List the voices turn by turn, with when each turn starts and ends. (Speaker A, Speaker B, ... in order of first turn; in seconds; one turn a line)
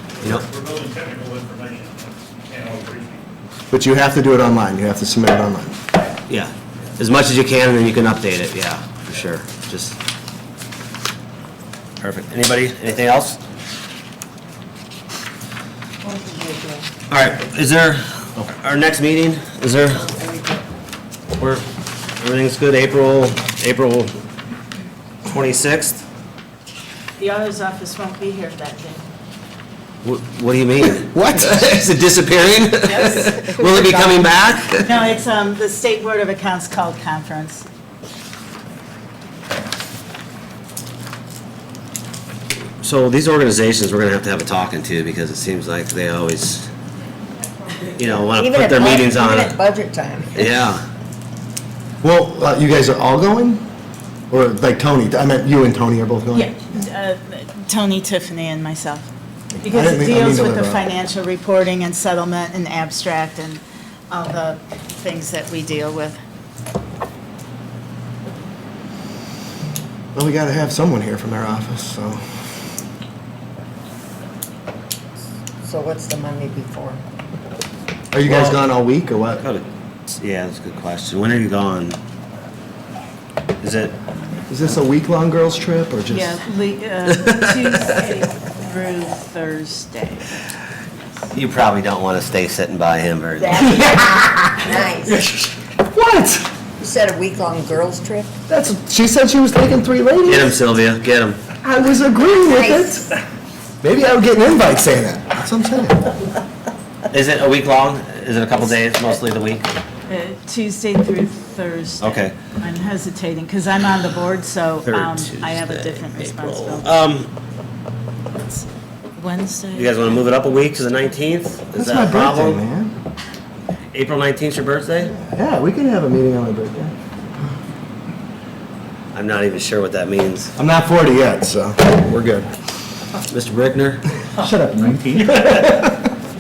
Speaker A: 0.2-3.6
Speaker B: 3.7-5.8
Speaker C: 6.3-10.0
Speaker C: 12.0-13.4
Speaker D: 16.0-16.9
Speaker C: 17.1-20.1
Speaker D: 20.0-20.6
Speaker C: 21.4-21.6
Speaker C: 22.2-24.1
Speaker C: 25.3-26.0
Speaker E: 27.2-29.1
Speaker C: 30.0-34.9
Speaker B: 30.9-31.8
Speaker E: 32.9-33.5
Speaker D: 33.2-34.2
Speaker E: 34.8-37.7
Speaker C: 42.8-46.7
Speaker C: 48.0-49.6
Speaker D: 48.3-50.6
Speaker C: 50.4-50.9
Speaker B: 52.0-53.6
Speaker B: 54.3-56.7
Speaker E: 56.3-59.1
Speaker B: 59.6-60.9
Speaker E: 59.6-66.2
Speaker B: 70.2-72.2
Speaker D: 75.6-77.0
Speaker B: 78.1-79.4
Speaker C: 78.2-78.6
Speaker C: 79.4-82.0
Speaker C: 83.6-84.0
Speaker B: 84.5-86.4
Speaker E: 86.1-90.4
Speaker C: 91.3-93.8
Speaker D: 93.4-95.3
Speaker B: 95.1-96.5
Speaker D: 96.8-98.3
Speaker B: 98.5-100.5
Speaker C: 100.2-101.5
Speaker B: 101.6-103.1
Speaker D: 102.5-103.2
Speaker B: 103.8-106.1
Speaker C: 107.1-109.7
Speaker E: 110.1-116.9
Speaker C: 112.0-112.4
Speaker C: 114.8-117.3
Speaker E: 118.3-120.2
Speaker C: 119.8-122.6
Speaker B: 121.8-123.0
Speaker C: 123.9-125.2
Speaker B: 125.1-126.9
Speaker C: 129.1-130.5
Speaker B: 130.6-132.5
Speaker C: 133.3-134.1
Speaker B: 134.3-136.1